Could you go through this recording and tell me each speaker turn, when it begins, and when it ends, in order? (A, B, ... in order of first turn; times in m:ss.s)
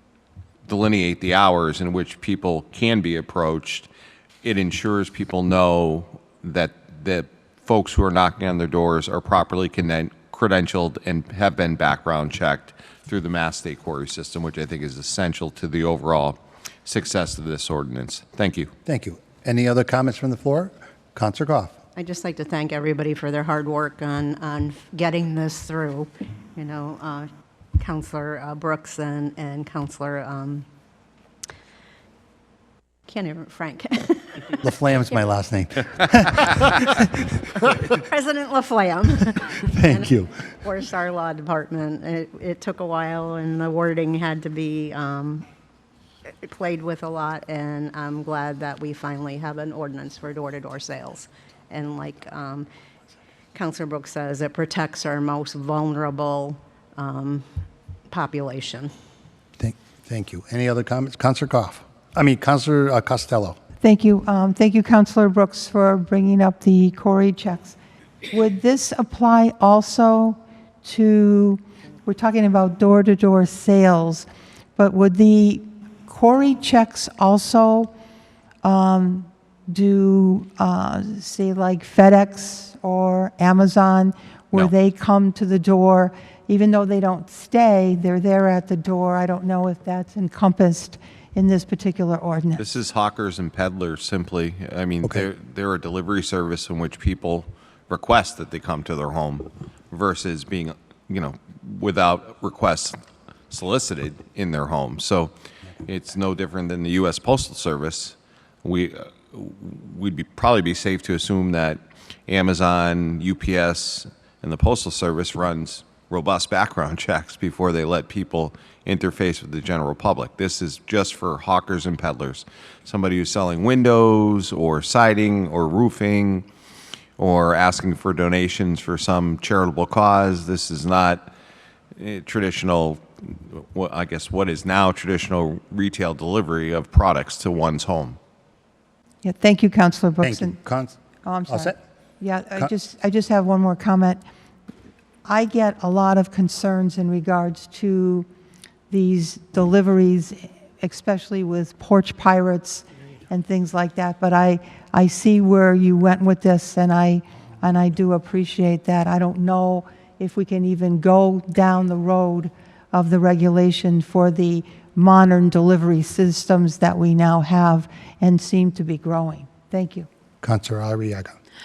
0:00.7-0:03.9 A
0:04.4-0:18.7 A
0:18.8-0:21.8 B
0:22.0-0:27.3 C
0:27.8-0:30.6 C
0:33.1-0:34.6 C
0:34.6-0:37.2 B
0:38.1-0:45.4 C
0:39.7-0:40.3 B
0:46.4-0:52.7 C
0:53.5-0:57.4 C
0:58.1-0:58.9 C
0:59.6-1:03.6 B
1:03.8-1:07.8 D
1:08.3-1:17.9 D
1:18.6-1:32.6 D
1:32.6-1:43.0 A
1:43.5-1:45.3 A
1:45.8-2:06.4 A
2:07.2-2:11.3 A
2:12.0-2:18.2 A
2:19.2-2:20.6 D
2:20.2-2:21.8 B
2:21.2-2:24.2 D
2:25.2-2:28.3 D
2:28.9-2:50.1 D
2:50.4-2:51.4 B